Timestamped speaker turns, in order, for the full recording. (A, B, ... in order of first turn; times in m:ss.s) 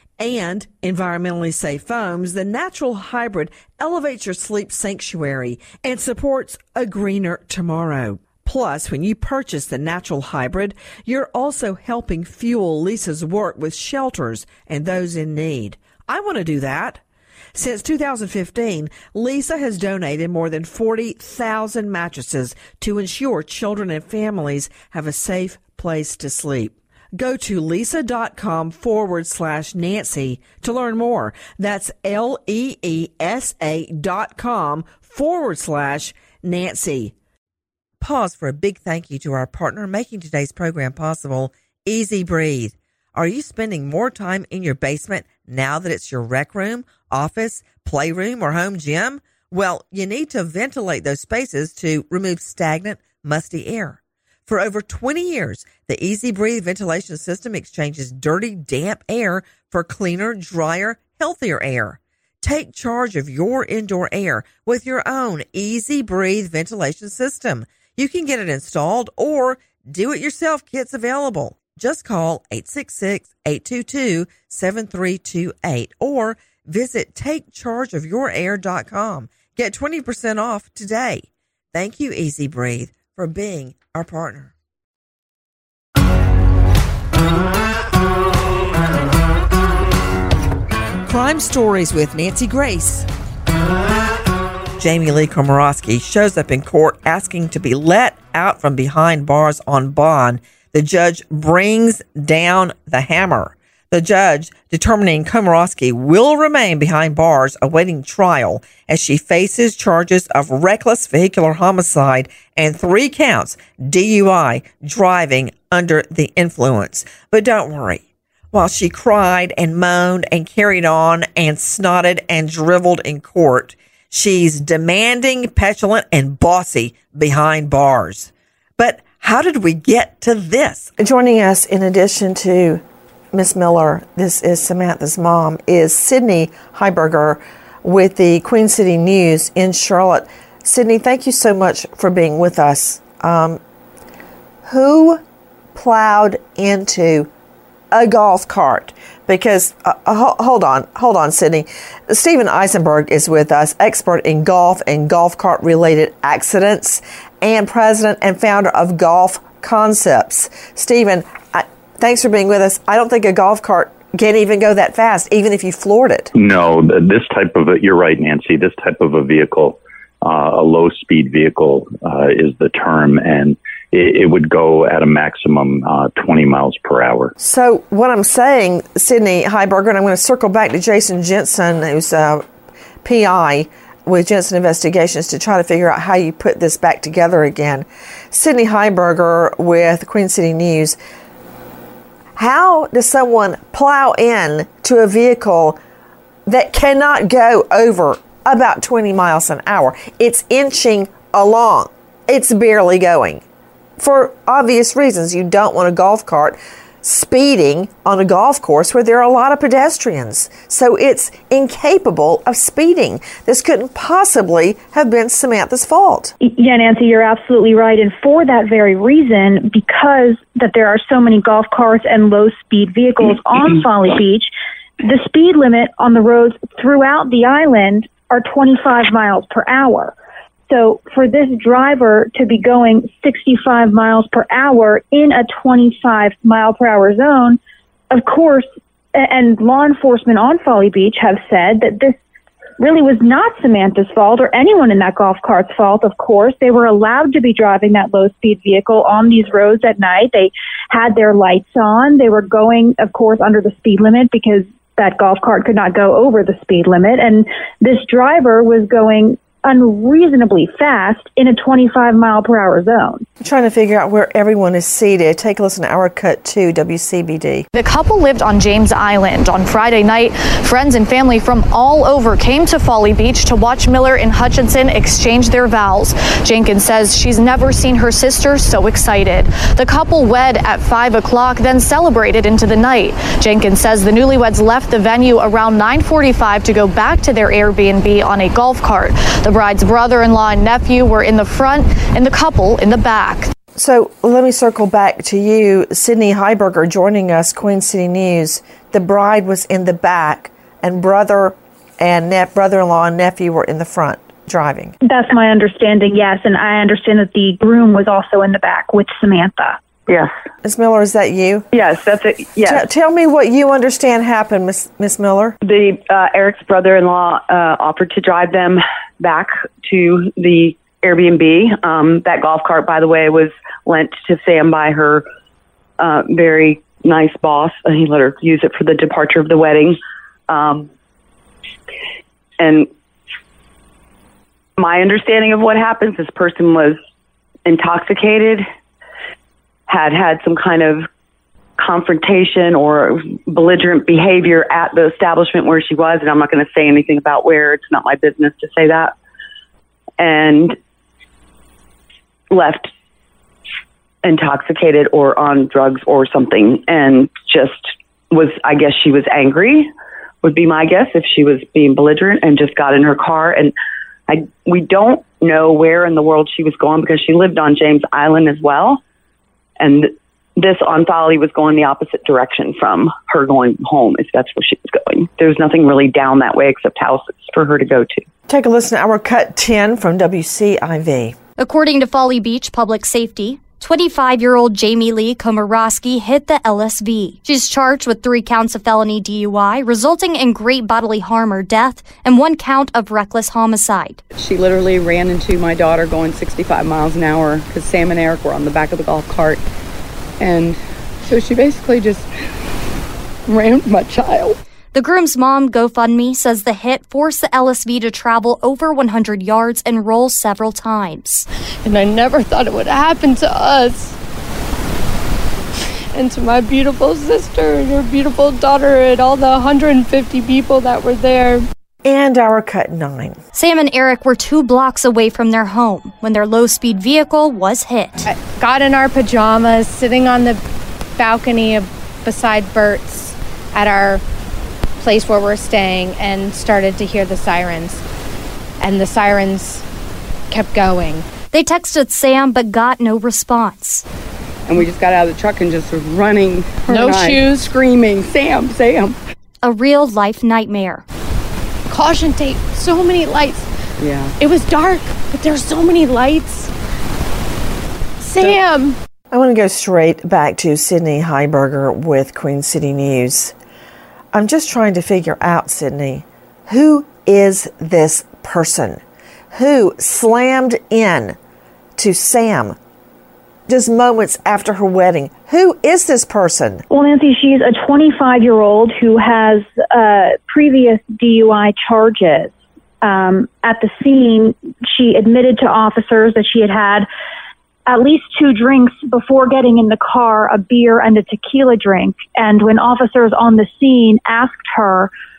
0:00.2-0:17.0 A
0:17.5-0:37.1 A
0:38.0-1:24.5 A
1:31.0-1:33.1 A
1:34.8-2:23.6 A
2:24.6-2:25.2 A
2:25.7-2:27.3 A
2:27.9-2:46.3 A
2:46.4-2:57.3 B
2:57.4-3:02.4 A
3:03.0-3:11.0 A
3:12.4-3:15.8 A
3:16.5-3:23.4 A
3:24.0-3:36.3 A
3:36.4-3:44.5 C
3:45.0-3:50.1 C
3:50.7-3:57.6 C
3:58.1-4:02.2 C
4:02.8-4:23.2 C
4:23.4-4:27.7 A
4:27.7-4:53.5 D
4:53.7-5:04.9 A
5:05.0-5:09.8 C
5:10.6-5:11.7 A
5:11.7-5:12.8 E
5:12.6-5:15.6 A
5:15.6-5:25.2 E
5:26.0-5:30.9 E
5:32.6-5:32.9 E
5:34.8-5:37.0 E
5:37.6-5:38.6 E
5:39.9-5:41.1 E
5:41.8-5:49.1 E
5:50.2-5:50.8 E
5:52.5-5:52.9 E
5:54.2-5:59.9 E
6:00.4-6:03.7 E
6:04.3-6:09.0 E
6:09.8-6:18.2 E
6:18.5-6:21.4 A
6:21.6-6:34.2 F
6:34.4-6:39.6 G
6:40.4-6:42.3 G
6:43.5-6:44.6 G
6:44.9-6:51.5 F
6:51.8-6:54.2 H
6:56.1-7:01.6 H
7:02.0-7:03.4 A
7:03.5-7:08.3 F
7:08.3-7:10.6 H
7:11.2-7:14.2 H
7:15.0-7:18.0 H
7:18.8-7:19.8 H
7:20.5-7:21.2 H
7:21.5-7:24.0 F
7:24.7-7:29.2 G
7:26.9-7:27.7 H
7:29.6-7:31.0 F
7:31.9-7:33.7 H
7:34.0-7:34.3 G
7:34.4-7:36.7 H
7:38.2-7:39.0 H
7:39.3-7:43.6 A
7:44.3-7:49.0 A
7:49.5-7:51.4 A
7:52.0-7:52.8 A
7:53.7-7:56.8 A
7:56.9-8:07.1 C
8:07.9-8:15.1 C